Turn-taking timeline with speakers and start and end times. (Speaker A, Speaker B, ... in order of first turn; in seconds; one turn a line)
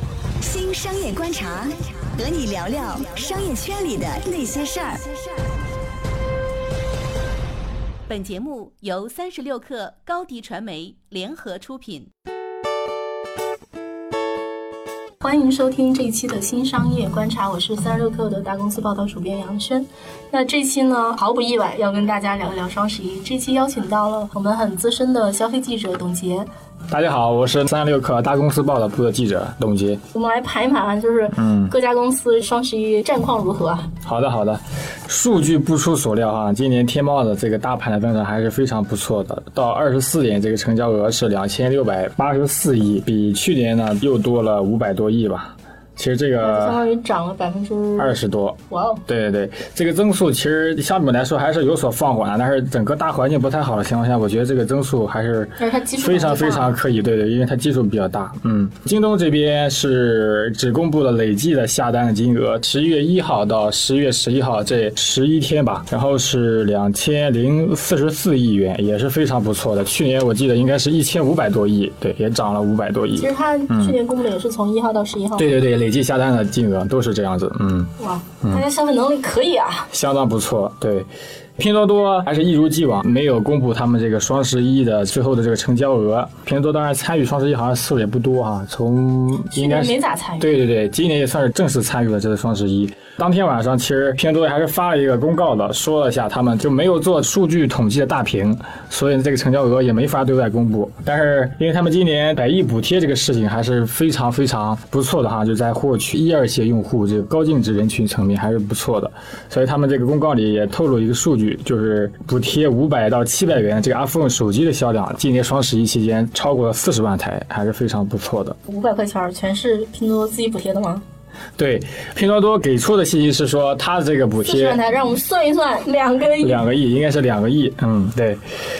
Speaker A: 0.4-5.1
Speaker B: 8.1-12.1
Speaker C: 15.2-26.5
Speaker D: 26.9-30.0
Speaker C: 30.1-33.9
Speaker D: 31.3-31.7
Speaker D: 34.0-46.8
Speaker C: 46.4-48.1
Speaker D: 48.0-74.0
Speaker C: 48.7-49.0
Speaker C: 55.6-56.8
Speaker C: 73.2-75.5
Speaker D: 75.3-77.9
Speaker C: 78.0-79.9
Speaker D: 79.9-118.6
Speaker C: 89.5-90.5
Speaker C: 118.7-121.0
Speaker D: 121.6-124.8
Speaker C: 124.4-126.6
Speaker D: 126.4-128.4